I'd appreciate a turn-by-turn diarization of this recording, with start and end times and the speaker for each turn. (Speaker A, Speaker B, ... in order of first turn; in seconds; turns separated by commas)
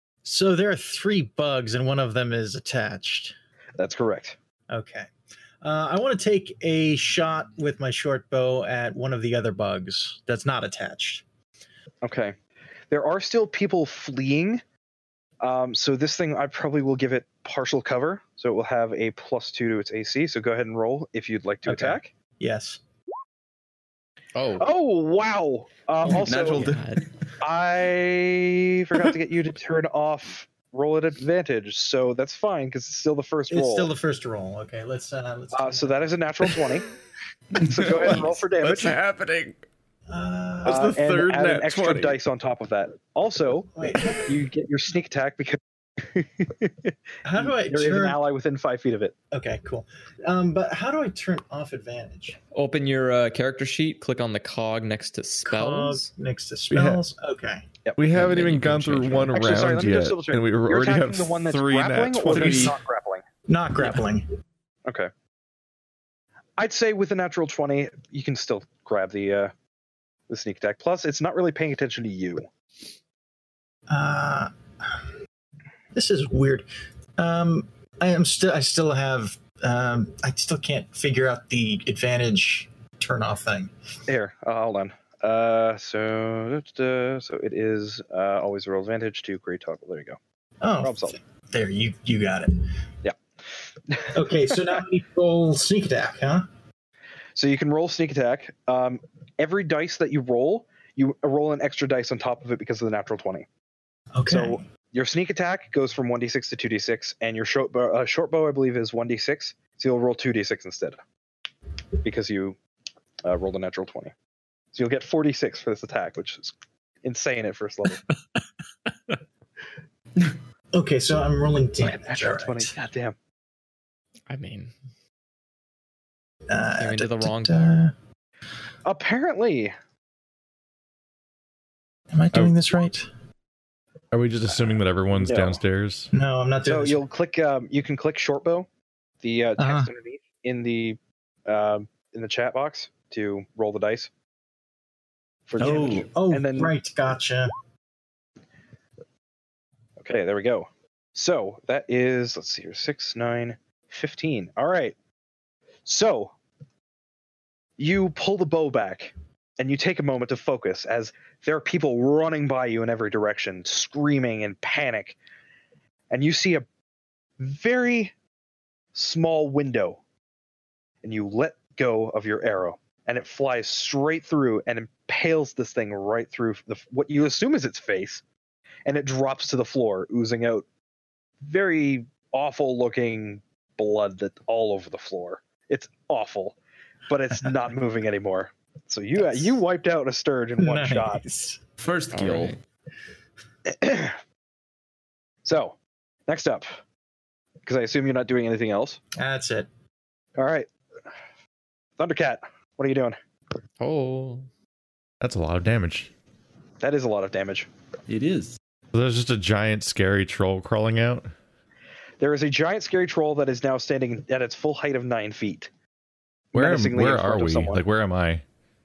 Speaker A: 0.2-3.4, Speaker B: 3.8-4.4, Speaker A: 4.7-5.1, Speaker A: 5.6-11.2, Speaker B: 12.0-12.4, Speaker B: 12.9-14.6, Speaker B: 15.4-22.1, Speaker A: 21.6-22.8, Speaker C: 24.3-24.6, Speaker B: 24.5-26.7, Speaker D: 26.0-27.1, Speaker C: 26.6-27.0, Speaker B: 27.4-33.9, Speaker A: 33.5-36.1, Speaker B: 35.5-36.9, Speaker B: 37.5-39.0, Speaker E: 37.9-39.6, Speaker A: 40.1-41.0, Speaker B: 40.6-49.1, Speaker E: 40.6-42.2, Speaker A: 43.8-44.4, Speaker A: 47.2-48.2, Speaker A: 49.3-52.4, Speaker C: 52.5-56.1, Speaker A: 55.5-57.7, Speaker E: 56.7-57.0, Speaker E: 58.0-62.8, Speaker C: 58.1-59.5, Speaker B: 59.3-63.2, Speaker D: 62.3-62.7, Speaker A: 63.5-64.2, Speaker B: 64.8-65.1, Speaker B: 66.6-69.5, Speaker B: 70.3-72.5, Speaker A: 73.9-75.0, Speaker A: 75.9-83.7, Speaker B: 84.1-90.2, Speaker A: 90.6-92.7, Speaker B: 90.8-91.2, Speaker B: 93.9-94.8, Speaker A: 94.1-96.5, Speaker B: 97.3-103.5, Speaker A: 104.1-104.6, Speaker B: 104.3-111.0, Speaker B: 112.0-112.6, Speaker B: 113.2-114.1, Speaker B: 114.7-118.0, Speaker A: 120.7-122.7, Speaker B: 121.8-123.2, Speaker C: 124.3-124.7, Speaker A: 126.5-127.9, Speaker C: 126.8-127.8, Speaker B: 128.8-129.8, Speaker A: 132.1-133.1, Speaker E: 134.1-136.1, Speaker B: 134.5-135.6, Speaker A: 136.1-137.0, Speaker B: 136.7-138.7, Speaker B: 139.2-144.1, Speaker A: 139.6-139.9, Speaker B: 145.5-146.7, Speaker D: 145.6-146.1, Speaker A: 145.6-147.5, Speaker B: 150.0-155.0, Speaker B: 155.8-156.3, Speaker B: 157.8-165.2, Speaker B: 166.1-166.7, Speaker B: 167.4-168.1, Speaker B: 168.9-170.0, Speaker B: 171.0-178.2, Speaker B: 178.8-180.7, Speaker B: 181.4-186.6, Speaker B: 187.1-191.2, Speaker A: 190.6-191.6, Speaker D: 191.8-192.5, Speaker C: 192.1-192.6, Speaker B: 193.7-194.2, Speaker B: 195.4-196.8, Speaker B: 197.6-199.0, Speaker A: 199.2-199.7, Speaker B: 200.4-200.7, Speaker B: 202.0-203.2, Speaker C: 203.8-204.5, Speaker E: 205.2-206.1, Speaker B: 206.8-207.7, Speaker D: 208.1-208.6, Speaker E: 208.9-211.3, Speaker B: 212.2-215.7, Speaker B: 216.5-217.8, Speaker E: 216.5-218.4